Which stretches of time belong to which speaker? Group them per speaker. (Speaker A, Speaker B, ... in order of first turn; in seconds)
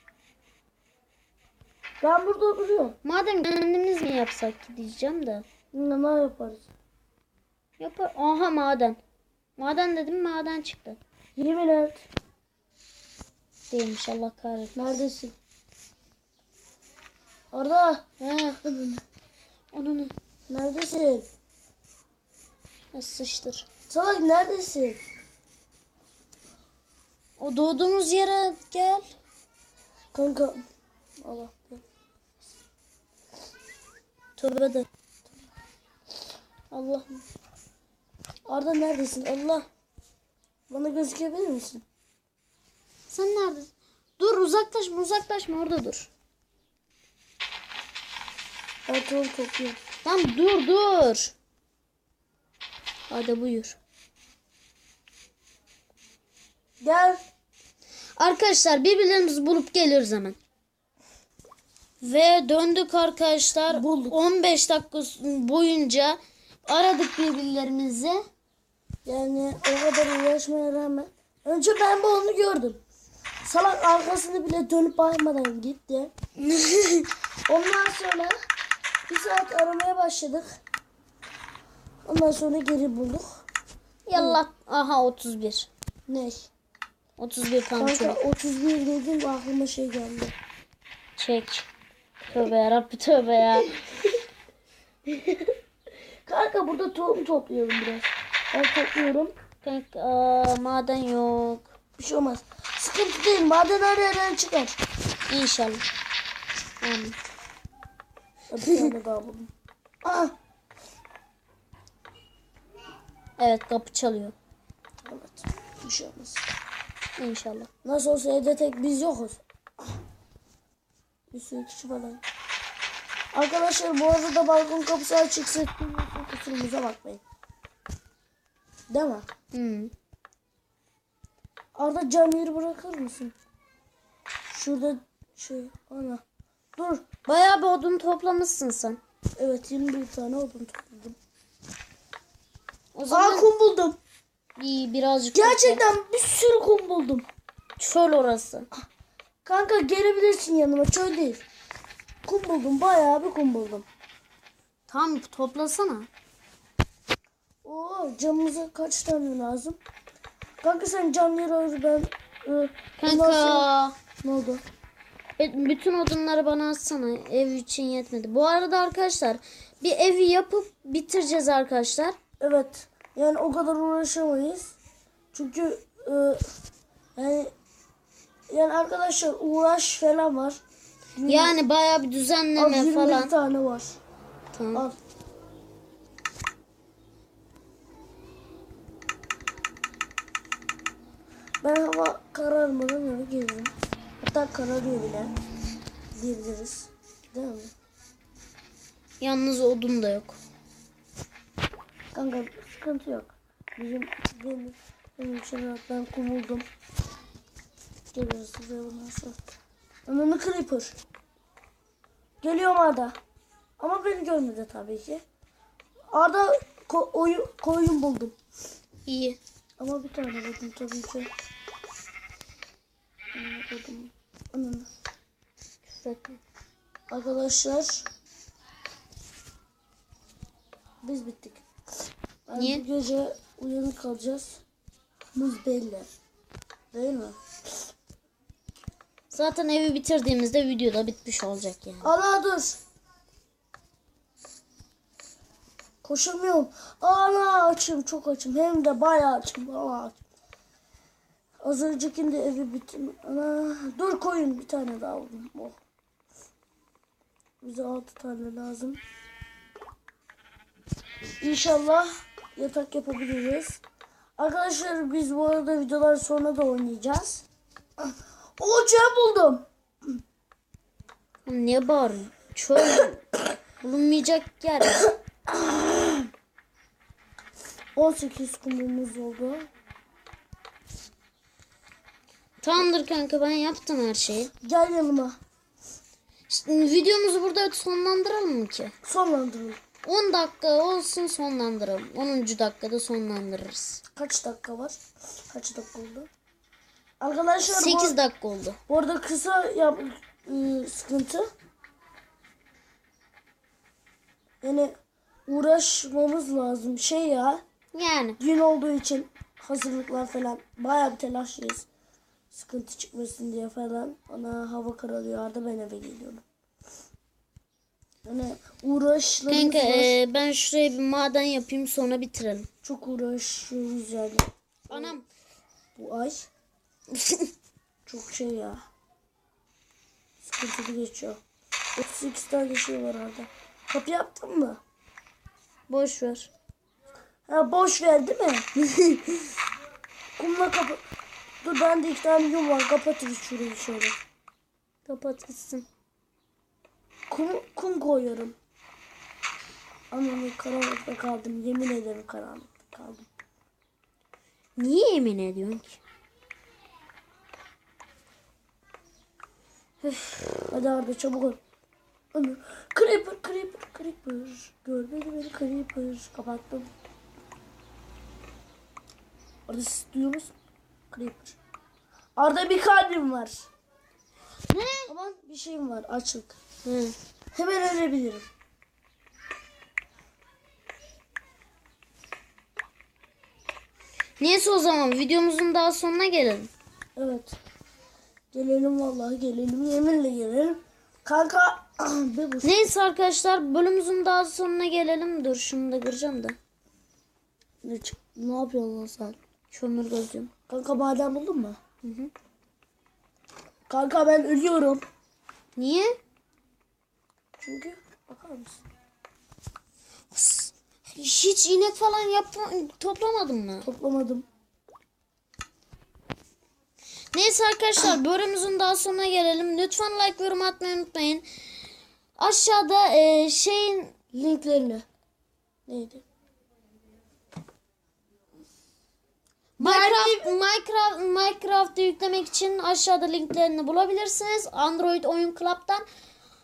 Speaker A: 2.0-3.0, 5.7-6.7, 11.4-12.0, 14.8-15.3, 17.5-18.1, 18.7-19.0, 20.5-21.3, 23.9-25.0, 30.1-30.6, 31.2-31.8, 38.5-39.7, 40.7-41.8, 48.9-49.8, 56.8-57.2, 63.7-64.2, 69.0-72.8, 73.4-76.1, 77.5-78.3, 79.1-80.5, 82.0-83.4, 84.2-84.4, 86.1-86.5, 87.8-90.3, 95.1-95.5, 96.3-99.3, 102.0-104.8, 108.5-109.5, 110.0-110.3, 115.1-116.5, 117.8-119.4, 121.3-122.2, 123.3-127.2, 128.9-129.3, 131.8-133.3, 134.5-136.2, 136.8-137.1, 139.4-141.2, 143.1-144.0, 145.3-147.3, 149.4-151.4, 152.2-153.9, 157.6-159.8, 160.6-163.7, 164.2-164.6, 172.4-174.8, 175.3-176.4, 177.2-177.5, 178.5-180.6, 181.2-181.6, 182.6-184.0, 191.6-195.3, 196.2-197.7, 202.1-206.7, 208.1-209.3, 210.1-211.0, 212.4-213.2, 213.8-215.2, 216.1-218.3, 219.8-221.3, 223.3-224.9, 227.1-228.1, 231.0-231.6, 232.5-234.6, 235.3-236.1, 236.9-237.4, 242.0-242.8, 246.0-250.2, 251.6-255.8, 257.6-259.0, 261.4-263.8, 264.4-267.4, 268.0-269.6, 278.0-279.7, 284.6-285.4, 289.1-289.8, 294.2-295.0, 295.5-296.3, 297.2-298.2, 298.9-301.5, 304.6-304.9, 305.5-307.6, 308.4-311.9, 312.5-316.4, 318.2-320.1, 322.8-325.2, 326.0-326.5, 328.1-328.9, 330.4-331.4, 332.0-334.8, 337.5-338.7, 340.4-341.0, 341.6-344.2, 347.3-348.6, 350.1-353.3, 360.7-361.6, 362.3-366.9, 369.7-370.5, 371.1-371.6, 372.4-373.7, 375.1-376.6, 377.5-378.5, 387.2-387.6, 388.5-392.7, 397.8-399.4, 400.7-401.8, 403.9-405.0, 407.6-408.8, 413.8-414.4, 424.3-425.1, 425.9-426.2, 429.8-430.6
Speaker B: 3.0-5.5, 7.8-9.0, 9.6-11.0, 13.7-14.8, 18.2-18.6, 19.7-20.1, 22.9-23.7, 27.4-29.1, 34.4-34.9, 36.7-37.2, 43.1-46.1, 50.0-51.3, 53.1-53.8, 58.2-60.4, 62.0-68.2, 76.4-77.0, 84.1-85.7, 87.2-88.2, 91.2-91.7, 92.3-93.7, 99.6-101.7, 105.3-105.8, 106.8-107.2, 108.7-108.9, 113.4-114.3, 117.2-117.7, 129.5-129.9, 137.3-139.0, 142.9-143.5, 144.6-145.8, 147.8-148.7, 154.9-156.1, 163.0-164.0, 165.4-172.2, 181.3-183.3, 184.5-184.9, 199.2-200.4, 219.1-219.4, 225.9-226.4, 232.6-232.8, 239.3-242.1, 271.5-273.2, 273.8-275.0, 282.6-284.5, 286.5-288.9, 290.0-294.0, 297.7-298.8, 307.9-308.4, 319.5-322.7, 324.9-325.3, 335.9-336.5, 345.1-345.9, 354.8-356.0, 360.0-360.5, 374.7-375.1, 376.9-377.1, 384.4-386.7, 392.6-396.6, 399.7-400.5, 402.0-402.3, 405.8-406.1, 410.3-413.9, 417.3-421.5, 422.4-424.1, 429.8-436.1